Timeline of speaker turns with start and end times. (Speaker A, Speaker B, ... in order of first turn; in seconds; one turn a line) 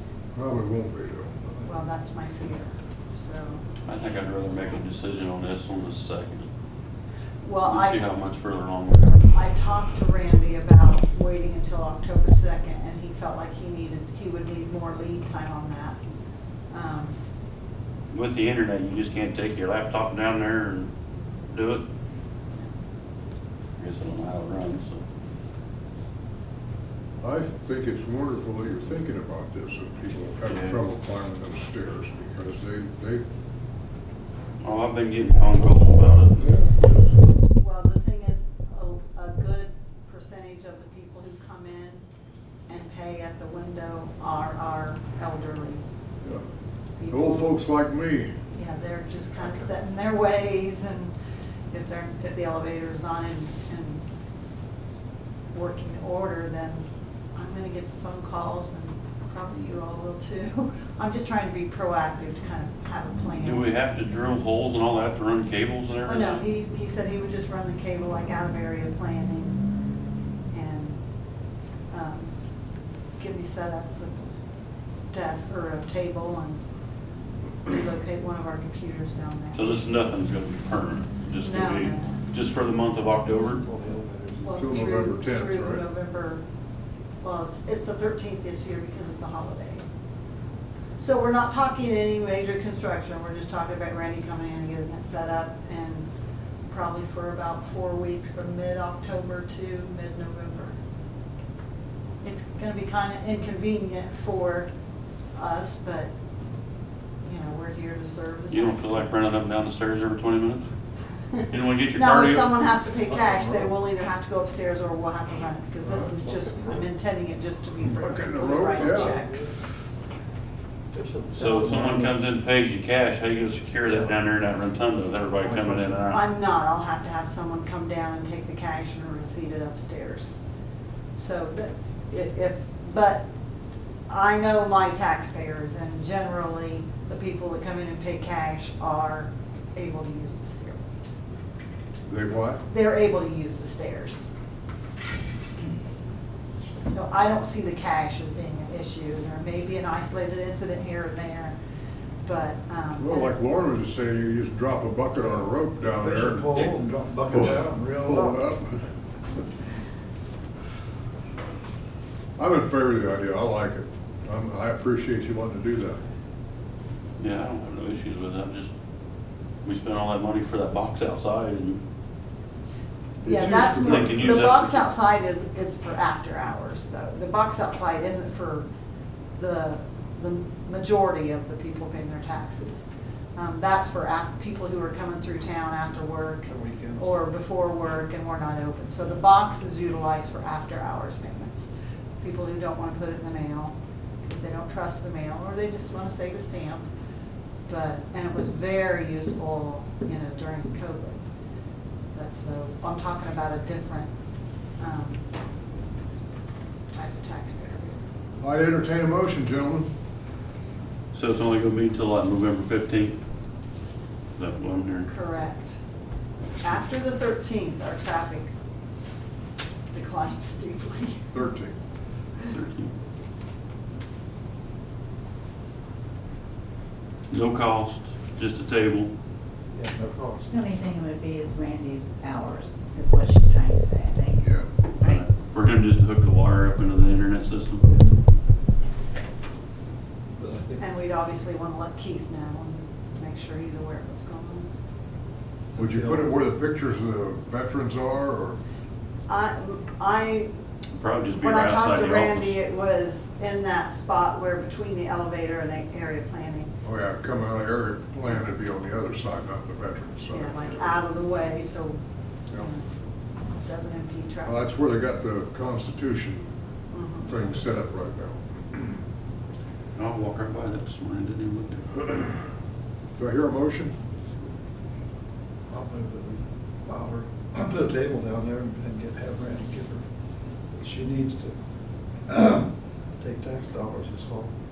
Speaker A: 0.3-1.4
Speaker B: 1.6-3.6
Speaker C: 3.9-6.5
Speaker B: 7.4-8.0
Speaker C: 7.6-9.3
Speaker B: 9.3-16.0
Speaker B: 16.7-17.2
Speaker C: 18.1-20.9
Speaker C: 21.5-21.8
Speaker C: 23.8-25.0
Speaker A: 27.2-33.2
Speaker C: 30.4-30.8
Speaker C: 34.6-36.5
Speaker A: 36.4-37.1
Speaker B: 37.6-42.0
Speaker B: 42.7-45.8
Speaker B: 47.0-47.5
Speaker A: 47.1-48.3
Speaker B: 48.5-51.1
Speaker B: 51.7-54.0
Speaker B: 55.5-63.7
Speaker C: 63.4-66.5
Speaker B: 66.0-69.6
Speaker B: 70.5-71.0
Speaker B: 71.9-72.3
Speaker B: 73.2-74.3
Speaker B: 75.1-76.6
Speaker B: 77.7-79.8
Speaker C: 79.5-83.6
Speaker B: 81.4-82.2
Speaker D: 83.3-84.5
Speaker B: 84.4-86.4
Speaker A: 84.5-85.8
Speaker B: 87.2-89.9
Speaker B: 91.0-96.1
Speaker B: 96.7-100.8
Speaker B: 102.2-104.7
Speaker B: 105.3-106.1
Speaker B: 107.2-108.9
Speaker C: 108.5-110.7
Speaker B: 111.3-119.6
Speaker C: 111.4-112.5
Speaker D: 113.1-113.7
Speaker D: 115.8-116.8
Speaker A: 117.8-119.2
Speaker D: 118.8-119.5
Speaker D: 120.9-122.1
Speaker C: 121.3-126.2
Speaker D: 123.9-124.1
Speaker D: 125.4-126.0
Speaker B: 126.1-130.4
Speaker B: 131.2-133.3
Speaker B: 134.1-140.8
Speaker A: 142.1-142.6
Speaker B: 142.7-144.3
Speaker B: 146.9-151.6
Speaker B: 152.2-153.3
Speaker A: 153.0-156.7
Speaker D: 155.8-158.4
Speaker A: 157.3-158.8
Speaker A: 162.4-166.0
Speaker C: 167.2-168.7
Speaker C: 169.6-171.8
Speaker B: 173.2-178.7
Speaker A: 173.2-174.6
Speaker C: 173.5-174.9
Speaker B: 179.4-191.7
Speaker D: 186.5-187.2
Speaker B: 192.2-196.9
Speaker B: 197.7-201.2
Speaker B: 202.1-204.1
Speaker B: 204.8-205.2
Speaker B: 206.9-208.0
Speaker A: 208.4-209.9
Speaker C: 211.1-213.2
Speaker C: 214.4-215.1
Speaker B: 215.1-215.7
Speaker B: 216.6-218.5
Speaker B: 219.9-221.3
Speaker A: 221.3-221.7
Speaker C: 222.5-222.9
Speaker C: 227.3-229.1
Speaker D: 229.7-230.5
Speaker E: 230.5-235.2
Speaker A: 234.4-234.7
Speaker C: 235.0-237.9
Speaker D: 240.4-240.8
Speaker B: 240.8-244.7
Speaker D: 245.7-246.3
Speaker A: 245.8-248.6
Speaker B: 249.3-250.5
Speaker C: 250.9-252.6
Speaker B: 251.4-256.7
Speaker A: 256.8-260.9
Speaker B: 260.3-262.0
Speaker B: 262.5-262.9
Speaker B: 263.6-264.6
Speaker A: 264.4-266.5
Speaker B: 266.9-267.3
Speaker A: 267.2-268.9
Speaker C: 270.0-272.1
Speaker A: 273.2-273.9
Speaker D: 275.7-280.1
Speaker D: 280.7-281.6
Speaker D: 282.3-284.5